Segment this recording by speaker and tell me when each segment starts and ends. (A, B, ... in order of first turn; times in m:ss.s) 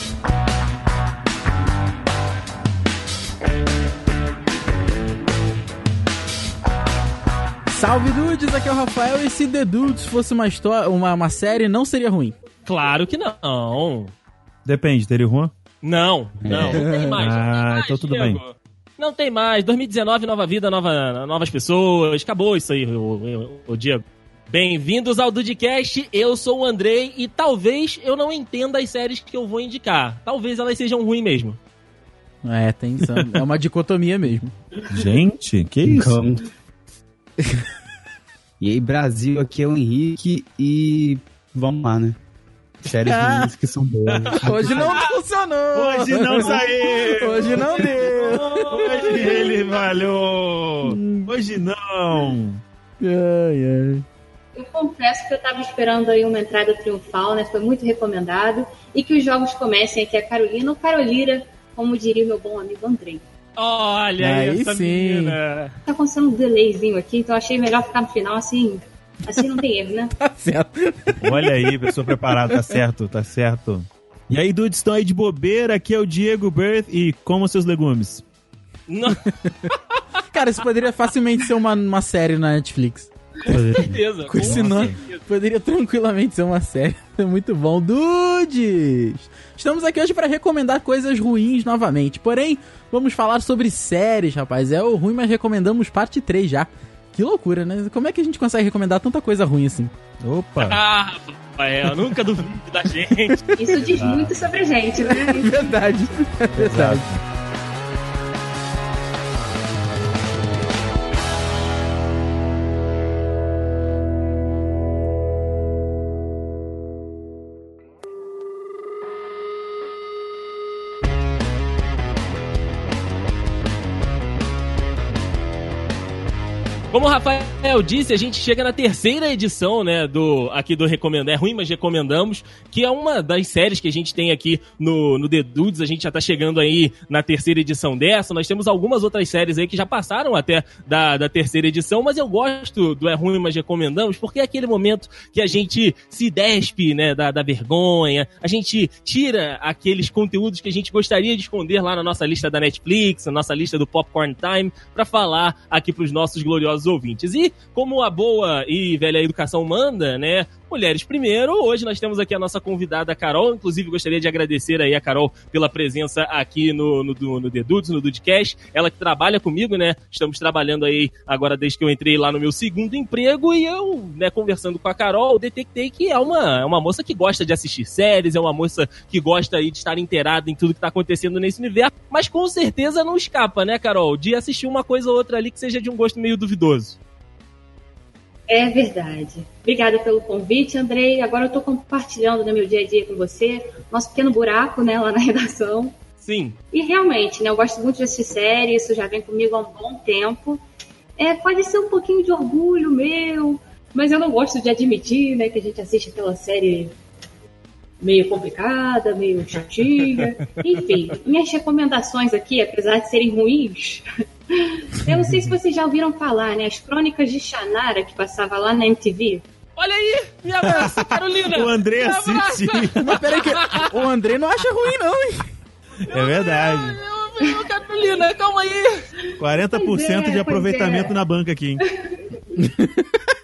0:07.7-0:12.3 A
0:12.6-0:14.1 B
0:14.6-0:15.5 C
0:15.8-0:31.6 B
0:16.4-0:16.8 D
0:16.5-0:18.4 C
0:16.5-0:17.2 A
0:32.4-0:34.5 A
0:33.2-0:33.4 C
0:34.9-0:36.2 C
0:35.8-0:36.4 D
0:38.6-0:42.2 D
0:42.8-0:45.0 D
0:42.9-0:43.5 A
0:44.4-0:49.4 A
0:45.7-0:52.6 C
0:47.1-0:49.4 B
0:50.8-0:51.3 A
0:53.0-0:54.0 A
0:54.5-1:03.2 E
1:03.6-1:05.7 B
1:04.2-1:05.4 A
1:05.8-1:10.1 E
1:10.1-1:12.8 A
1:11.2-1:18.2 C
1:18.9-1:19.2 B
1:19.4-1:19.7 A
1:20.3-1:23.1 A
1:23.5-1:24.0 D
1:23.7-1:25.2 B
1:24.2-1:39.9 A
1:24.4-1:25.0 C
1:40.2-1:40.8 C
1:40.6-1:43.4 B
1:43.6-1:45.9 E
1:44.0-1:44.2 B
1:45.0-1:47.0 A
1:46.5-1:47.2 C
2:06.9-3:07.0 B
3:08.5-3:16.0 E
3:16.2-3:16.6 B
3:16.7-3:20.6 E
3:21.2-3:26.9 E
3:28.0-3:39.4 E
3:35.1-3:35.5 C
3:39.8-3:44.0 B
3:40.8-3:43.1 C
3:43.0-3:45.5 A
3:46.1-3:47.0 C
3:46.1-3:49.1 B
3:49.4-3:51.8 C
3:49.4-3:51.2 E
3:52.6-3:53.1 A